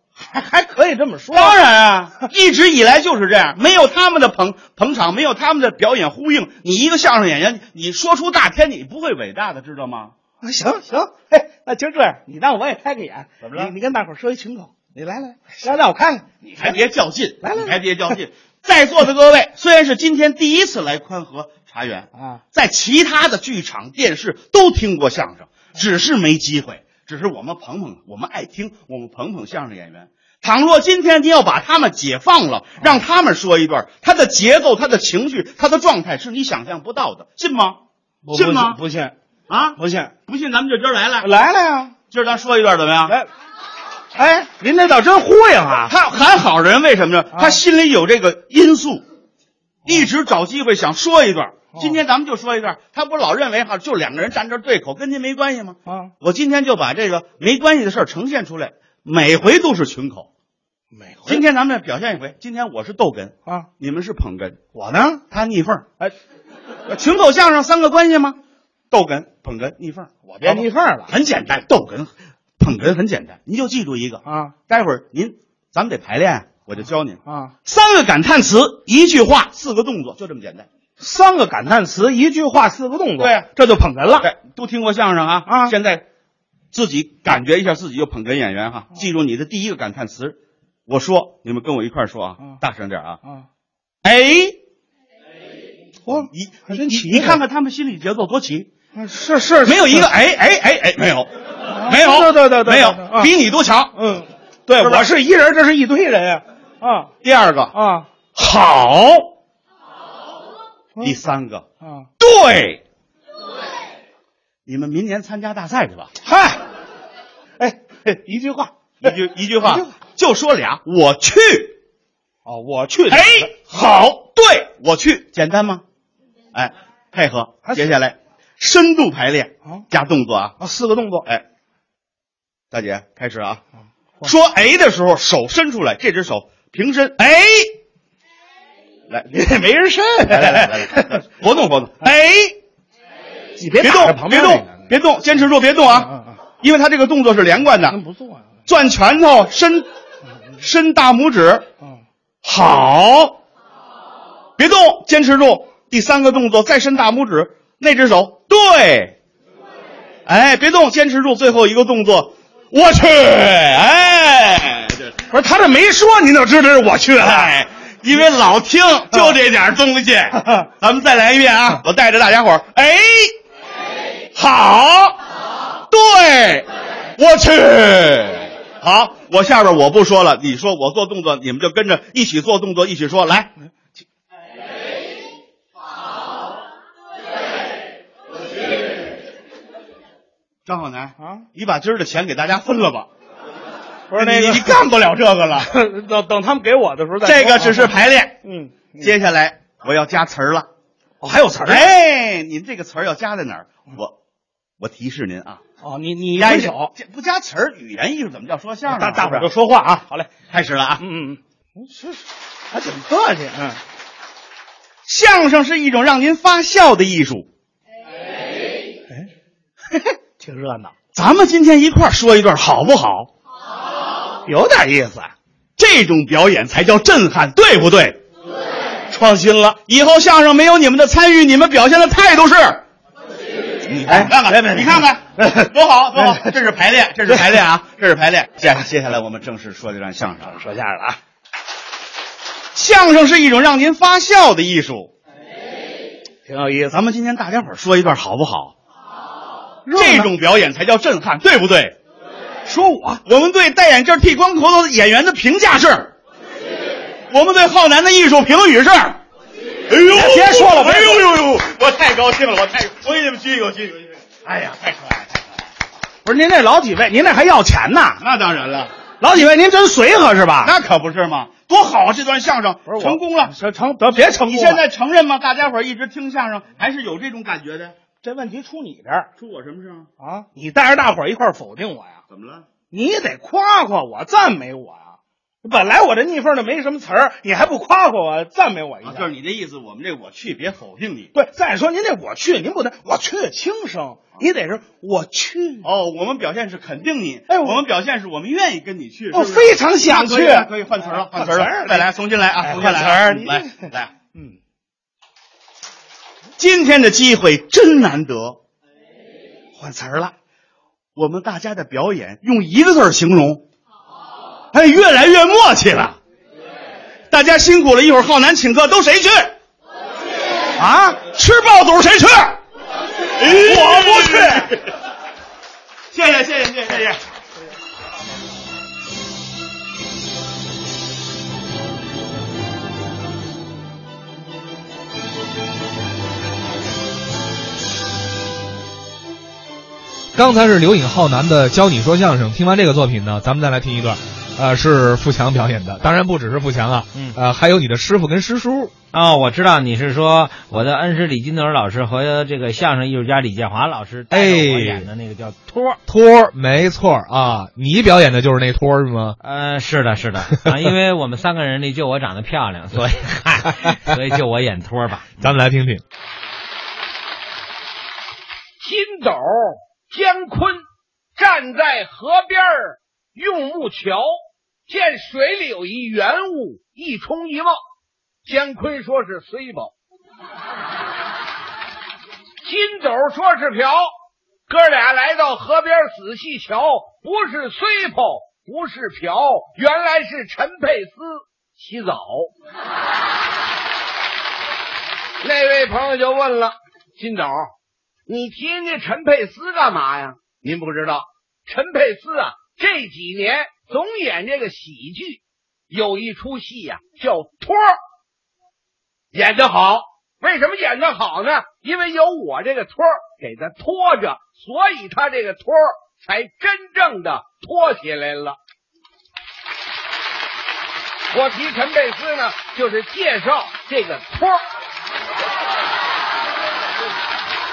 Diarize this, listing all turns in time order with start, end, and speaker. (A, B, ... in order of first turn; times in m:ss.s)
0:00.2-0:01.6 A
0:01.3-0:10.1 B
0:10.4-0:16.9 A
0:13.4-0:13.7 B
0:16.5-0:37.8 B
0:17.4-0:18.2 A
0:22.1-0:22.4 A
0:38.2-0:39.2 A
0:38.3-0:38.8 B
0:39.5-0:41.3 B
0:39.8-0:40.1 A
0:41.2-0:42.0 A
0:42.1-0:43.2 B
0:44.2-0:46.0 A
0:45.9-0:49.0 B
0:47.3-0:47.6 A
0:49.9-1:00.3 B
0:51.8-0:52.0 A
0:55.9-0:56.1 A
1:00.9-1:01.5 A
1:01.3-1:04.6 B
1:04.8-1:05.2 A
1:05.3-1:05.9 B
1:06.9-1:08.4 B
1:08.9-1:20.7 B
1:10.3-1:11.1 A
1:14.2-1:14.6 A
1:17.2-1:17.5 A
1:21.0-1:24.3 A
1:23.2-1:23.5 B
1:24.1-1:26.0 B
1:25.5-1:25.8 A
1:26.7-1:33.2 B
1:34.0-1:34.6 B
1:36.1-1:37.4 A
1:36.1-1:38.7 B
1:38.9-1:40.2 A
1:39.6-1:44.0 B
1:41.7-1:43.4 A
1:43.9-1:47.1 A
1:44.8-1:45.1 B
1:47.2-1:47.7 B
1:47.7-1:48.1 A
1:48.4-1:49.3 B
1:51.0-1:51.7 B
1:51.8-1:52.1 A
1:52.2-1:52.8 B
1:54.7-1:56.1 B
1:56.2-1:56.6 A
1:57.6-1:59.9 A
1:59.0-2:01.8 B
2:02.4-2:03.5 A
2:03.1-2:05.8 B
2:06.5-2:10.6 B
2:07.7-2:08.0 A
2:10.6-2:11.3 A
2:12.7-2:13.6 B
2:14.2-2:17.8 B
2:19.3-2:21.2 A
2:20.3-2:22.6 B
2:23.6-2:24.8 A
2:23.8-2:28.0 B
2:25.9-2:26.4 A
2:27.9-2:28.5 A
2:28.7-2:29.9 B
2:30.6-2:31.7 B
2:32.4-2:33.4 B
2:34.6-2:39.2 B
2:40.3-2:45.2 B
2:45.3-2:47.6 A
2:47.2-2:53.3 B
2:50.4-2:50.7 A
2:54.4-2:55.1 A
2:54.4-2:55.1 B
2:55.9-3:03.5 B
3:10.6-3:13.1 B
3:11.2-3:11.4 A
3:14.1-3:14.8 A
3:14.1-3:15.7 B
3:15.6-3:19.2 A
3:17.2-3:18.4 B
3:19.0-3:20.7 B
3:21.2-3:21.9 A
3:21.6-3:24.2 B
3:24.8-3:25.6 B
3:25.8-3:26.9 A
3:26.4-3:29.5 B
3:28.8-3:30.4 A
3:30.5-3:31.0 B
3:31.0-3:33.8 A
3:35.0-3:37.5 B
3:39.9-3:41.0 A
3:41.1-3:43.3 B
3:44.4-3:45.3 A
3:45.8-3:48.2 B
3:49.1-3:49.8 A
3:49.8-3:52.8 B
3:53.9-4:00.6 B
3:54.0-3:56.5 A
3:57.3-3:57.6 A
4:00.4-4:01.2 A
4:02.7-4:05.1 B
4:06.4-4:07.0 A
4:06.9-4:08.8 B
4:09.9-4:10.3 A
4:10.0-4:12.0 B
4:12.7-4:13.2 A
4:13.2-4:16.1 B
4:17.3-4:19.2 B
4:19.9-4:25.4 B
4:20.1-4:21.4 A
4:26.2-4:28.2 A
4:28.2-4:28.9 B
4:29.2-4:30.8 A
4:30.6-4:33.5 B
4:32.9-4:34.8 A
4:34.4-4:38.0 B
4:38.2-4:39.3 A
4:39.4-4:40.1 B
4:40.2-4:42.2 A
4:42.3-4:42.7 B
4:42.9-4:49.3 A
4:49.0-4:51.3 B
4:51.3-4:55.9 A
4:55.8-5:04.1 B
4:57.5-4:57.8 A
4:59.3-5:04.6 A
5:06.6-5:08.6 B
5:09.8-5:10.3 A
5:11.2-5:13.7 B
5:14.7-5:16.2 B
5:17.3-5:19.6 B
5:20.8-5:21.2 A
5:21.0-5:22.6 B
5:23.4-5:24.9 B
5:23.4-5:24.8 A
5:26.1-5:27.2 B
5:40.4-5:48.9 C
5:49.1-5:56.0 D
5:54.3-5:55.1 C
5:56.1-5:59.4 C
5:59.4-6:05.5 D
6:05.4-6:06.0 C
6:08.8-6:10.8 E
6:11.4-6:14.4 E
6:14.9-6:17.8 E
6:18.4-6:19.9 E
6:22.6-6:24.1 E
6:24.7-6:32.5 E
6:35.4-6:37.7 E
6:38.3-6:48.0 E
6:49.3-6:58.6 E
7:01.3-7:04.6 E